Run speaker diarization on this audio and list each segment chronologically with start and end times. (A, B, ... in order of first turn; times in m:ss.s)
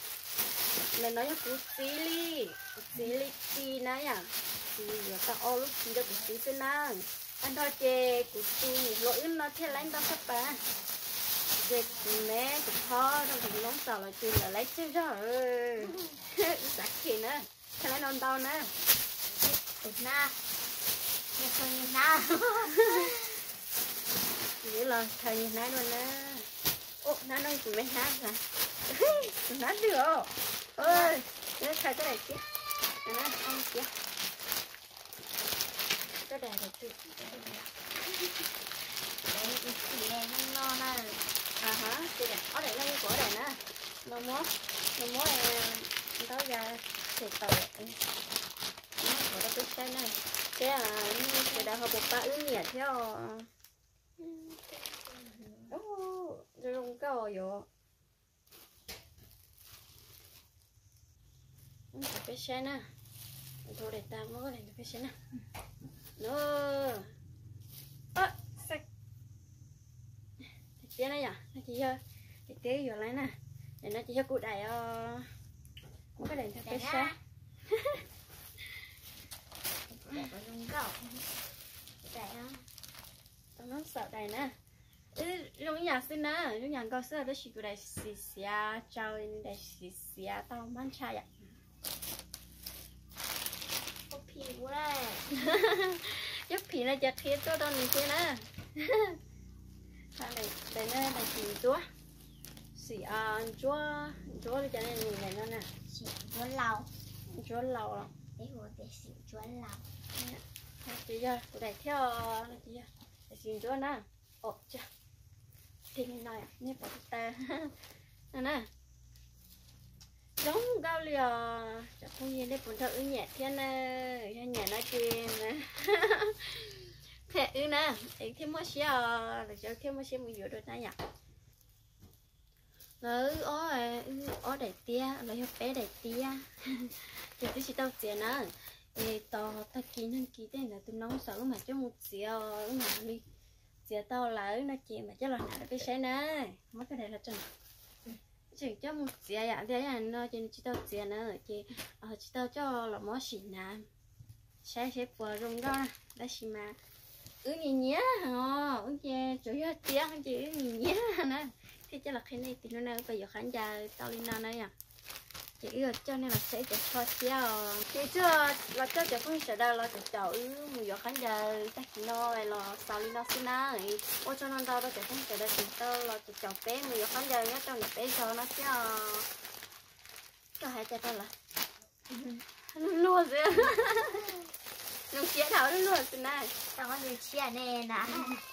0:00.9-0:10.6 A
0:11.6-0:18.7 A
0:19.8-0:20.3 B
0:21.4-0:23.2 B
0:24.6-0:26.5 A
0:27.0-0:32.4 A
0:30.8-0:31.1 B
0:33.0-0:33.9 A
0:36.2-0:37.6 A
0:39.3-0:41.2 B
0:41.6-0:48.0 A
0:49.0-0:53.5 A
0:51.4-0:51.7 B
0:54.2-0:55.7 B
0:55.7-0:57.7 A
1:01.9-1:02.9 A
1:03.7-1:05.1 A
1:06.2-1:07.1 A
1:08.2-1:08.8 A
1:10.8-1:15.3 A
1:16.2-1:17.2 A
1:16.6-1:17.2 B
1:19.9-1:21.2 B
1:22.0-1:22.6 B
1:23.6-1:24.5 A
1:25.1-1:31.3 A
1:34.1-1:35.3 B
1:35.3-1:39.2 A
1:40.2-1:41.8 A
1:42.7-1:45.7 A
1:45.9-1:46.9 B
1:47.3-1:48.1 A
1:48.4-1:49.8 B
1:50.2-1:54.9 A
1:55.9-1:57.8 A
1:58.3-1:58.7 A
2:00.4-2:11.0 A
2:13.0-2:23.2 A
2:23.9-2:27.5 A
2:28.5-2:33.9 A
2:34.6-2:36.8 A
2:37.4-2:44.7 A
2:45.6-2:59.3 A
3:00.6-3:01.3 A
3:02.1-3:02.4 B
3:02.7-3:04.2 A
3:05.1-3:06.5 A
3:06.7-3:08.4 B